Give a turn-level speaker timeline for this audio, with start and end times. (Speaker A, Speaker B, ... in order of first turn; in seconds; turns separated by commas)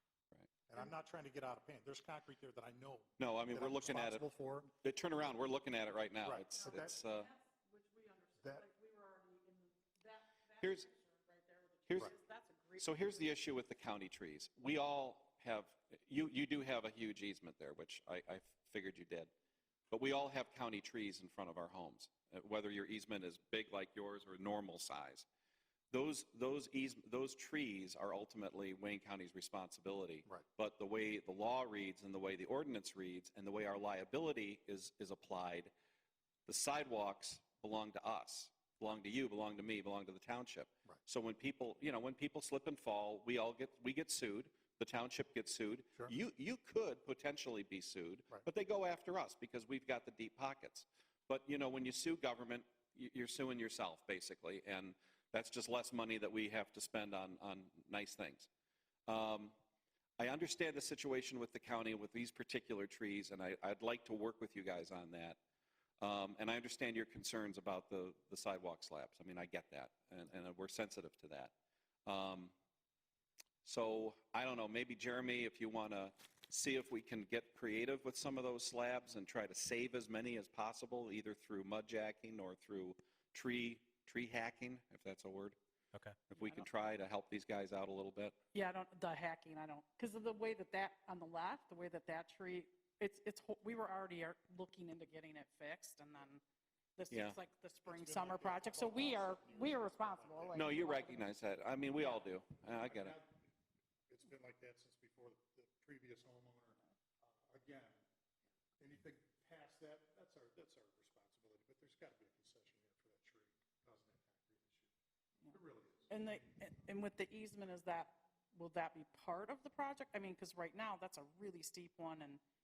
Speaker A: 0.7-4.7, Speaker B: 3.2-4.3, Speaker B: 4.8-7.3, Speaker A: 6.2-7.0, Speaker C: 6.5-13.3, Speaker B: 10.6-10.9, Speaker B: 11.9-12.1, Speaker B: 12.8-19.3, Speaker B: 19.9-25.3, Speaker B: 25.9-35.7, Speaker B: 36.5-58.5, Speaker B: 59.1-59.5, Speaker B: 60.2-65.4, Speaker B: 66.0-71.5, Speaker B: 72.1-72.5, Speaker B: 73.6-85.6, Speaker B: 86.3-88.4, Speaker C: 86.3-86.7, Speaker C: 88.5-96.4, Speaker C: 97.0-101.2, Speaker B: 97.1-97.4, Speaker A: 97.8-100.9, Speaker B: 100.5-103.2, Speaker A: 102.7-103.5, Speaker A: 104.1-108.0, Speaker A: 108.8-114.9, Speaker C: 115.4-122.4, Speaker A: 115.5-116.4